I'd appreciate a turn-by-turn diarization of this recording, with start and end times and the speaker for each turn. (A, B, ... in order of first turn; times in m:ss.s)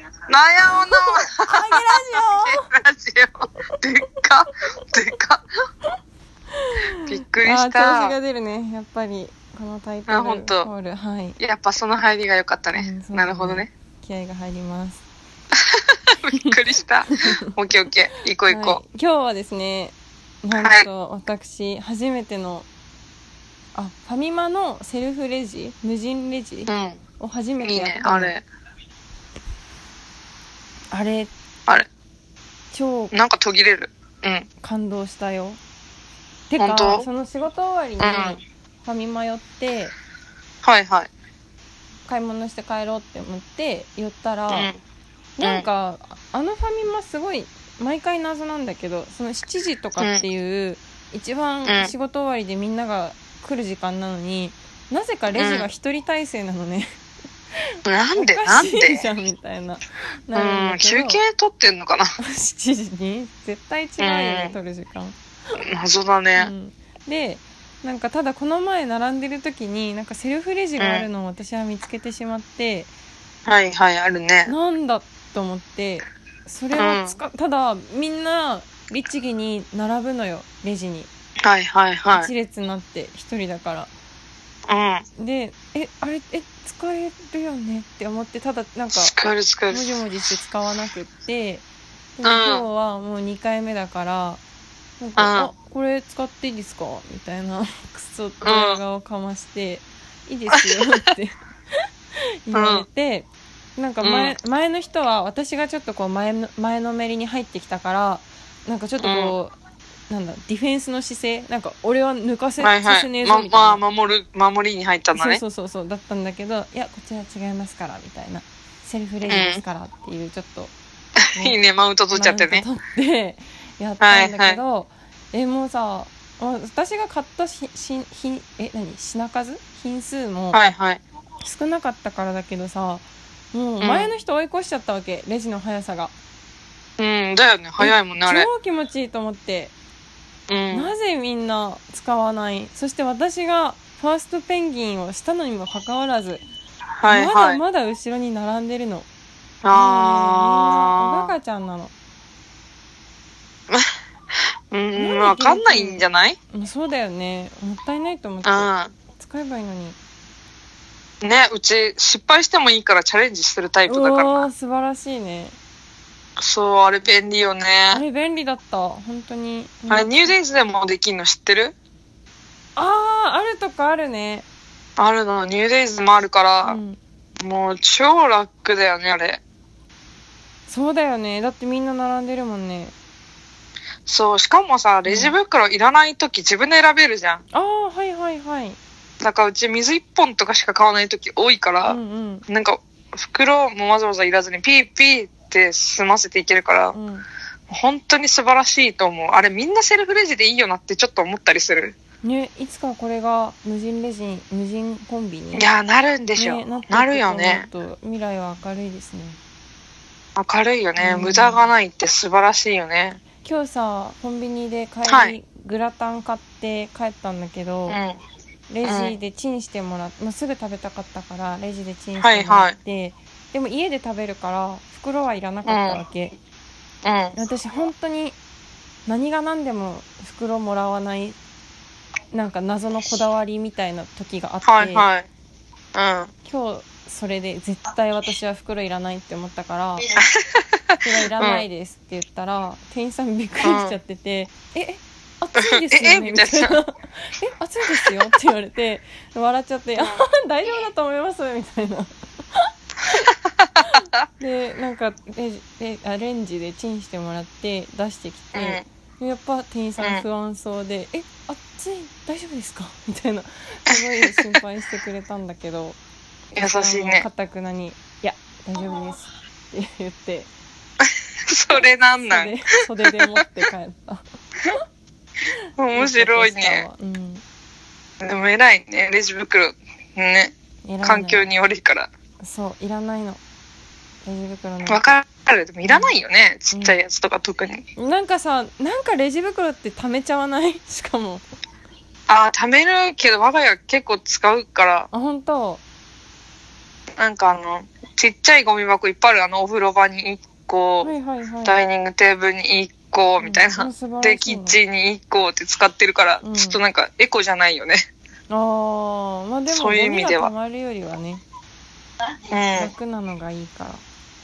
0:00.3-0:05.4 A
0:00.9-0:02.7 B
0:06.6-0:11.4 B
0:07.0-0:08.2 A
0:10.1-0:10.7 A
0:11.4-0:13.7 A
0:12.7-0:15.0 B
0:15.8-0:18.8 A
0:17.2-0:17.4 B
0:18.5-0:22.7 B
0:20.6-0:20.9 A
0:23.7-0:28.3 B
0:26.7-0:27.0 A
0:27.6-0:28.4 A
0:30.9-0:31.3 B
0:32.7-0:33.2 B
0:33.1-0:34.5 A
0:34.6-0:35.6 B
0:36.5-0:39.9 B
0:36.6-0:37.0 A
0:38.0-0:38.4 A
0:40.6-0:41.1 A
0:42.0-0:44.7 B
0:44.5-0:44.8 A
0:45.4-0:56.9 B
0:45.4-0:45.7 A
0:50.0-0:50.2 A
0:51.6-0:51.9 A
0:55.3-0:55.7 A
0:57.8-0:59.0 A
0:58.2-1:01.2 B
1:00.3-1:02.1 A
1:02.2-1:05.2 B
1:04.0-1:04.5 A
1:05.6-1:06.5 A
1:06.4-1:12.9 B
1:10.8-1:11.0 A
1:13.4-1:14.5 A
1:14.5-1:21.1 B
1:16.7-1:17.2 A
1:21.4-1:22.3 A
1:22.1-1:23.9 B
1:24.7-1:25.0 A
1:25.2-1:29.1 B
1:28.9-1:29.9 A
1:29.7-1:31.6 B
1:32.2-1:34.4 B
1:32.2-1:32.6 A
1:35.0-1:41.4 B
1:35.2-1:35.5 A
1:38.4-1:38.8 A
1:42.4-1:49.5 B
1:42.5-1:42.9 A
1:44.0-1:44.3 A
1:49.0-1:49.3 A
1:50.1-1:53.8 B
1:52.6-1:55.4 A
1:55.1-2:00.7 B
1:59.3-1:59.6 A
2:01.4-2:02.6 A
2:02.1-2:10.6 B
2:04.0-2:04.6 A
2:10.5-2:11.0 A
2:11.4-2:16.1 B
2:13.8-2:14.1 A
2:17.0-2:18.5 A
2:17.8-2:19.7 B
2:20.5-2:20.9 A
2:20.7-2:26.4 B
2:27.0-2:27.6 A
2:27.0-2:29.1 B
2:29.6-2:31.3 A
2:29.7-2:31.9 B
2:34.7-2:36.4 A
2:35.0-2:40.0 B
2:38.4-2:38.9 A
2:41.2-2:44.5 A
2:43.9-2:45.6 B
2:46.4-2:48.0 A
2:47.9-2:50.3 B
2:49.9-2:51.7 A
2:52.8-2:54.5 B
2:55.0-2:56.8 A
2:56.6-2:57.0 B
2:57.4-2:59.4 A
3:00.7-3:02.9 B
3:04.0-3:07.4 A
3:05.0-3:05.3 B
3:07.5-3:08.8 B
3:09.2-3:17.0 A
3:11.8-3:12.4 B
3:16.9-3:17.3 B
3:17.7-3:22.0 A
3:22.2-3:25.7 B
3:25.5-3:27.6 A
3:26.4-3:29.4 B
3:30.4-3:33.2 A
3:31.0-3:31.6 B
3:33.4-3:38.0 B
3:35.0-3:35.4 A
3:37.9-3:38.2 A
3:38.7-3:46.4 B
3:38.8-3:39.2 A
3:42.2-3:42.8 A
3:45.6-3:46.0 A
3:47.0-3:47.3 A
3:47.4-3:48.4 B
3:49.0-3:51.4 B
3:52.3-3:55.0 B
3:54.6-3:55.3 A
3:55.9-3:56.3 A
3:56.4-4:00.1 B
4:00.2-4:01.6 A
4:01.0-4:13.3 B
4:03.6-4:04.0 A
4:05.6-4:06.8 A
4:13.3-4:14.2 A
4:13.8-4:26.0 B
4:18.5-4:18.8 A
4:20.0-4:20.2 A
4:23.9-4:24.4 A
4:26.5-4:27.3 A
4:26.6-4:30.5 B
4:31.0-4:32.6 A
4:32.2-4:34.8 B
4:35.8-4:36.8 A
4:35.9-4:37.4 B
4:38.2-4:42.1 A
4:40.8-4:41.5 B
4:42.4-4:43.4 B
4:44.2-4:45.1 B
4:44.8-4:47.8 A
4:45.8-4:46.1 B
4:46.7-4:47.0 B
4:48.0-4:51.4 B
4:52.3-4:55.1 A
4:55.1-4:55.8 B
4:57.2-5:01.1 A
5:01.0-5:01.8 B
5:01.6-5:08.0 A
5:03.4-5:04.8 B
5:06.4-5:06.8 B
5:08.5-5:11.4 B
5:09.7-5:10.5 A
5:12.5-5:12.9 A
5:12.7-5:14.0 B